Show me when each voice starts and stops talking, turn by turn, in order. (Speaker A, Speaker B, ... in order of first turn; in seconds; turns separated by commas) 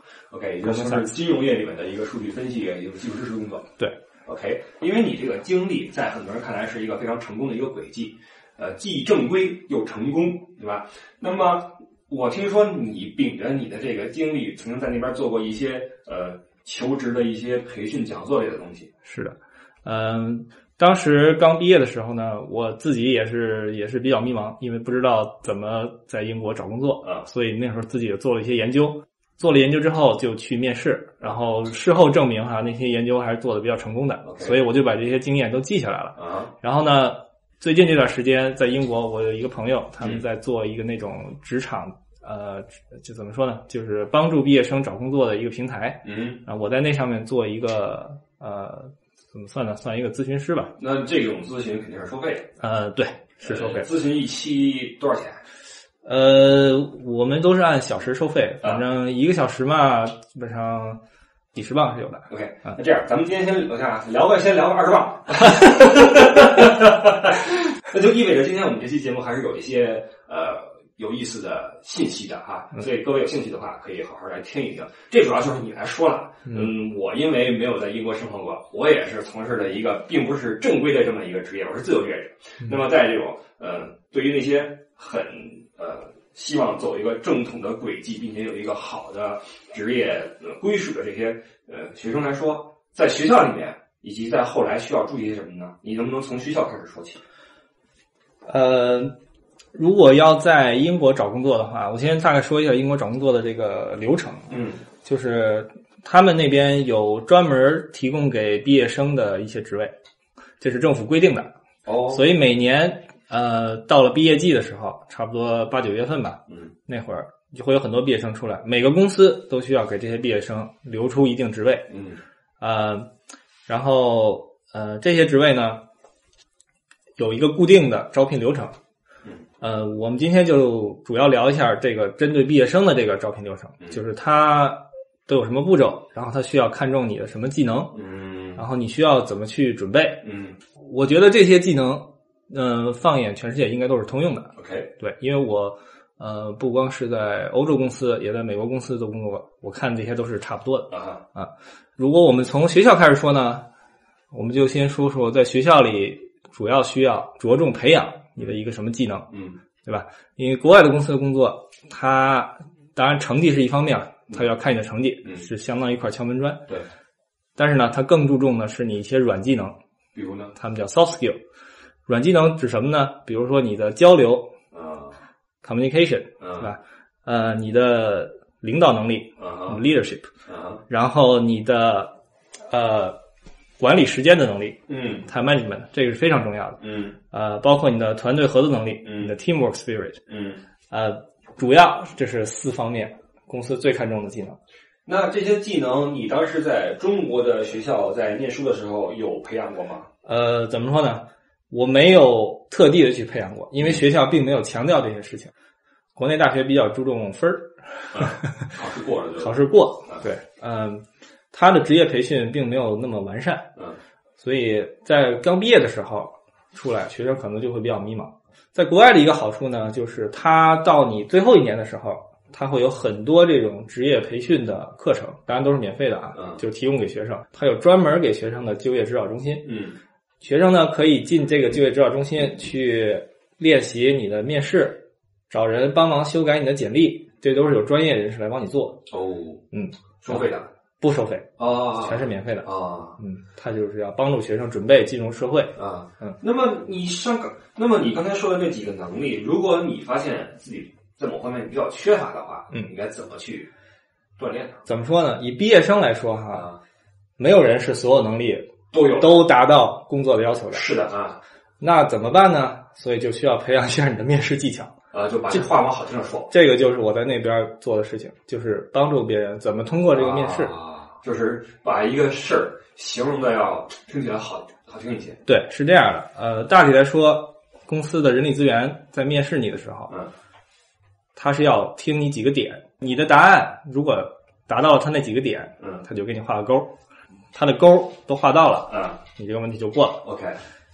Speaker A: 0.3-3.7, Speaker B: 0.6-1.1, Speaker A: 4.2-18.9, Speaker B: 19.0-50.8, Speaker A: 34.2-34.5, Speaker A: 36.2-36.5, Speaker A: 46.0-46.4, Speaker A: 50.8-52.5, Speaker B: 52.6-53.9, Speaker A: 53.4-55.4, Speaker B: 56.0-61.0, Speaker B: 61.5-62.3, Speaker A: 62.3-97.2, Speaker B: 76.5-76.7, Speaker B: 98.4-99.1, Speaker B: 99.7-109.9, Speaker A: 104.5-104.8, Speaker B: 110.6-111.5, Speaker A: 111.8-112.2, Speaker B: 112.1-121.9, Speaker A: 121.9-122.2, Speaker B: 122.6-123.1, Speaker B: 123.7-125.8, Speaker B: 127.2-128.7, Speaker B: 129.6-138.0, Speaker A: 137.9-138.6, Speaker B: 138.6-140.2, Speaker A: 140.2-140.6, Speaker B: 140.8-153.6, Speaker A: 144.6-144.9, Speaker A: 150.9-151.2, Speaker B: 154.3-159.3, Speaker A: 159.3-159.6, Speaker B: 159.8-166.6, Speaker B: 167.6-169.8, Speaker A: 170.1-170.5, Speaker B: 170.5-171.4, Speaker B: 172.1-174.5, Speaker A: 174.7-175.2, Speaker B: 175.6-180.3, Speaker A: 176.4-176.7, Speaker A: 179.4-179.8, Speaker A: 180.5-180.8, Speaker B: 180.9-182.1, Speaker B: 182.7-183.2, Speaker B: 183.8-190.2, Speaker A: 184.9-185.2, Speaker A: 186.8-187.1, Speaker A: 189.0-189.3, Speaker A: 190.3-190.6, Speaker B: 190.9-194.6, Speaker A: 195.0-200.1, Speaker B: 200.2-205.5, Speaker B: 206.2-208.7, Speaker A: 208.1-210.2, Speaker B: 209.4-213.7, Speaker B: 214.4-229.7, Speaker A: 229.6-230.0, Speaker B: 230.4-239.0, Speaker A: 239.1-239.6, Speaker B: 239.7-240.4, Speaker A: 240.2-240.7, Speaker B: 241.0-246.4, Speaker A: 241.6-243.2, Speaker A: 245.8-253.7, Speaker A: 254.4-254.8, Speaker B: 254.8-256.7, Speaker B: 257.4-260.9, Speaker A: 258.9-259.4, Speaker A: 260.7-261.4, Speaker B: 261.8-264.9, Speaker A: 265.1-266.5, Speaker B: 266.5-270.7, Speaker A: 270.1-275.4, Speaker B: 275.4-280.1, Speaker B: 281.4-286.9, Speaker B: 287.5-290.2, Speaker A: 288.9-289.2, Speaker A: 290.2-290.6